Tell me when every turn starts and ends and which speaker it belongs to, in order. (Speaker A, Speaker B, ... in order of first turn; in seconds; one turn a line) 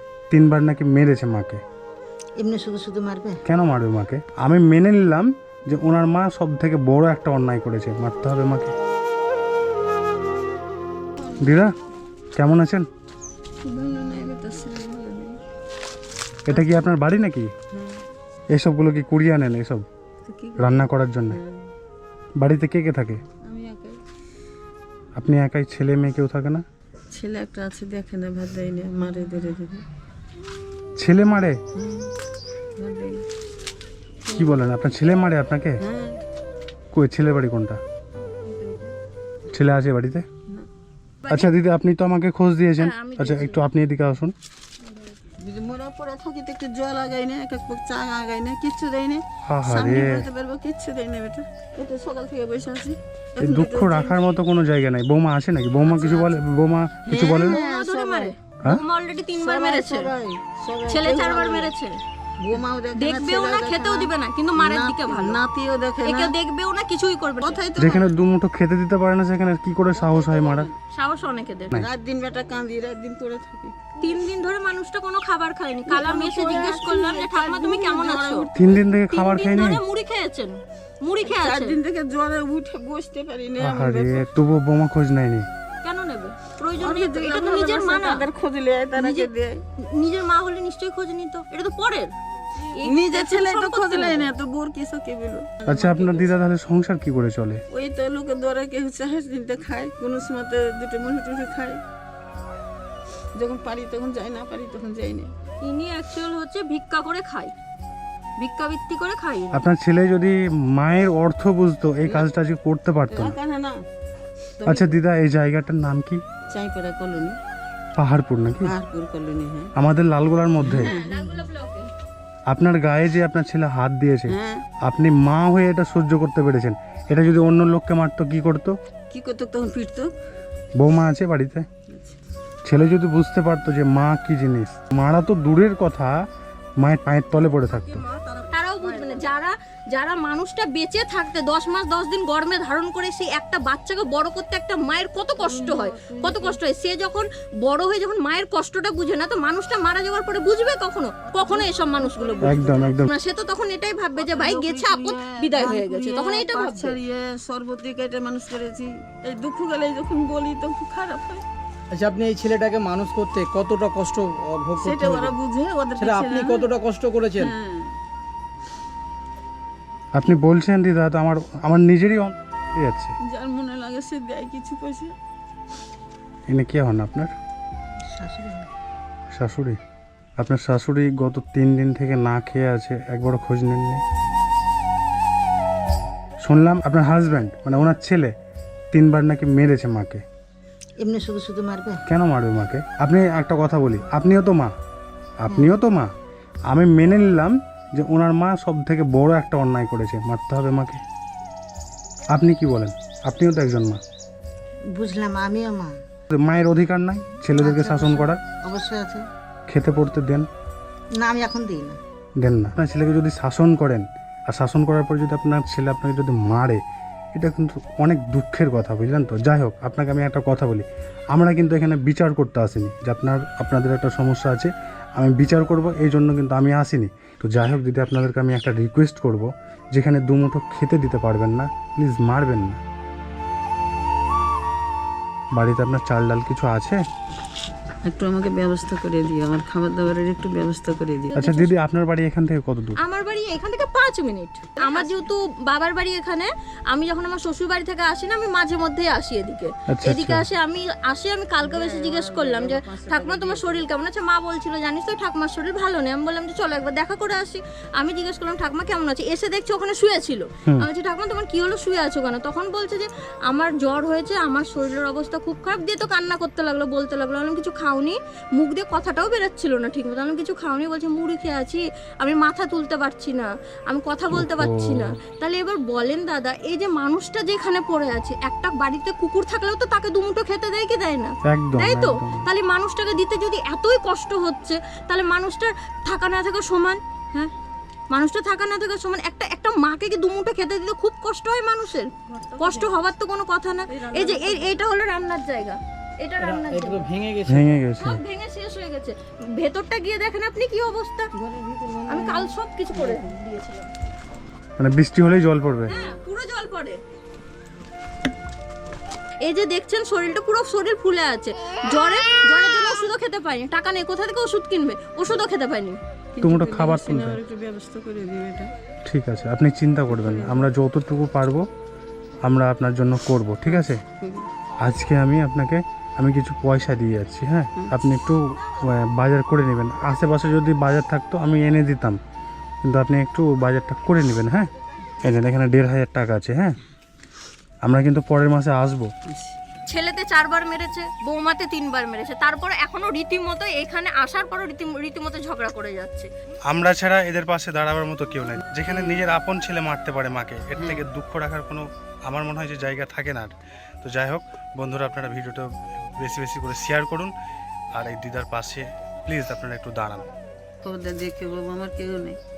Speaker A: 0.3-1.6
Speaker B: 2.4-3.4
Speaker A: 3.4-8.7
Speaker C: 11.2-11.6
Speaker A: 11.4-11.7
Speaker A: 12.3-12.9
Speaker C: 13.6-15.4
Speaker A: 16.4-17.5
Speaker C: 16.5-16.8
Speaker C: 17.7-18.0
Speaker A: 18.5-19.9
Speaker C: 20.2-21.7
Speaker A: 20.6-21.4
Speaker A: 22.4-23.2
Speaker C: 23.4-24.0
Speaker A: 25.1-26.6
Speaker C: 27.1-29.8
Speaker A: 31.0-31.6
Speaker C: 31.7-32.1
Speaker C: 32.8-33.2
Speaker A: 34.3-35.8
Speaker C: 35.8-36.2
Speaker A: 36.9-37.8
Speaker C: 38.2-38.9
Speaker A: 39.5-40.2
Speaker D: 41.2-41.5
Speaker A: 41.3-44.3
Speaker D: 42.8-43.7
Speaker C: 45.2-54.2
Speaker A: 49.4-50.2
Speaker A: 53.4-57.6
Speaker C: 55.8-56.4
Speaker C: 57.1-58.3
Speaker D: 57.3-60.1
Speaker C: 59.4-61.7
Speaker D: 60.9-62.0
Speaker C: 62.4-66.3
Speaker D: 62.9-65.4
Speaker D: 66.0-67.7
Speaker C: 67.4-68.1
Speaker A: 67.8-70.7
Speaker C: 70.0-70.7
Speaker D: 70.9-71.8
Speaker C: 71.7-74.0
Speaker D: 74.0-78.5
Speaker C: 75.9-78.9
Speaker A: 78.5-79.8
Speaker D: 79.1-81.8
Speaker C: 81.2-84.3
Speaker A: 83.6-85.5
Speaker D: 85.8-88.3
Speaker C: 86.8-89.6
Speaker D: 89.0-92.1
Speaker C: 92.6-96.3
Speaker D: 92.7-94.3
Speaker A: 95.7-97.6
Speaker C: 97.7-101.8
Speaker C: 103.3-105.3
Speaker D: 105.6-107.5
Speaker D: 108.4-109.6
Speaker A: 109.5-113.4
Speaker C: 113.1-113.8
Speaker C: 114.6-115.0
Speaker A: 114.6-116.2
Speaker C: 116.5-117.4
Speaker A: 118.0-118.7
Speaker C: 118.6-119.7
Speaker A: 119.7-120.9
Speaker C: 120.6-121.4
Speaker D: 120.7-121.9
Speaker A: 122.5-128.8
Speaker C: 124.3-124.6
Speaker C: 129.1-130.1
Speaker A: 130.8-131.7
Speaker C: 131.9-132.2
Speaker A: 132.6-136.2
Speaker A: 136.8-138.0
Speaker C: 137.5-139.3
Speaker D: 138.5-157.0
Speaker C: 145.4-146.6
Speaker C: 151.3-152.9
Speaker A: 152.4-153.1
Speaker C: 154.2-161.4
Speaker E: 161.9-165.3
Speaker C: 164.8-166.7
Speaker E: 166.0-167.5
Speaker C: 167.4-167.9
Speaker A: 170.2-173.1
Speaker C: 173.2-175.1
Speaker A: 176.5-177.3
Speaker B: 178.1-178.7
Speaker A: 179.3-179.8
Speaker A: 180.4-184.0
Speaker A: 186.4-188.3
Speaker A: 188.9-190.2
Speaker B: 191.0-192.0
Speaker A: 192.1-194.7
Speaker A: 195.4-196.1
Speaker A: 196.7-201.0
Speaker A: 202.3-204.0
Speaker B: 204.9-205.9
Speaker A: 206.3-208.4
Speaker B: 207.6-209.2
Speaker A: 209.7-210.5
Speaker B: 211.2-212.0
Speaker A: 212.4-216.8
Speaker A: 217.3-232.8
Speaker A: 235.5-237.0
Speaker C: 238.0-241.3
Speaker D: 241.3-241.7
Speaker A: 241.3-243.0
Speaker D: 243.0-287.5
Speaker C: 244.8-245.2
Speaker A: 249.9-250.5
Speaker C: 251.6-253.8
Speaker A: 274.3-275.1
Speaker A: 281.4-282.5
Speaker D: 288.1-297.1
Speaker C: 292.3-292.9
Speaker C: 293.9-294.7
Speaker E: 296.4-297.7
Speaker A: 297.4-298.2
Speaker D: 298.0-301.3
Speaker C: 301.4-303.3
Speaker D: 302.1-303.9
Speaker A: 304.8-305.9
Speaker D: 305.9-307.0
Speaker D: 309.4-316.0
Speaker C: 316.3-318.7
Speaker A: 316.4-317.4
Speaker A: 319.1-321.6
Speaker C: 320.1-320.7
Speaker A: 322.4-324.0
Speaker C: 323.6-324.5
Speaker A: 324.8-332.2
Speaker A: 332.8-334.7
Speaker A: 335.2-336.8
Speaker A: 337.8-339.1
Speaker C: 339.3-339.6
Speaker D: 339.9-346.3
Speaker A: 346.7-357.3
Speaker C: 348.7-349.2
Speaker C: 350.8-351.0
Speaker A: 357.9-360.3
Speaker C: 360.8-362.4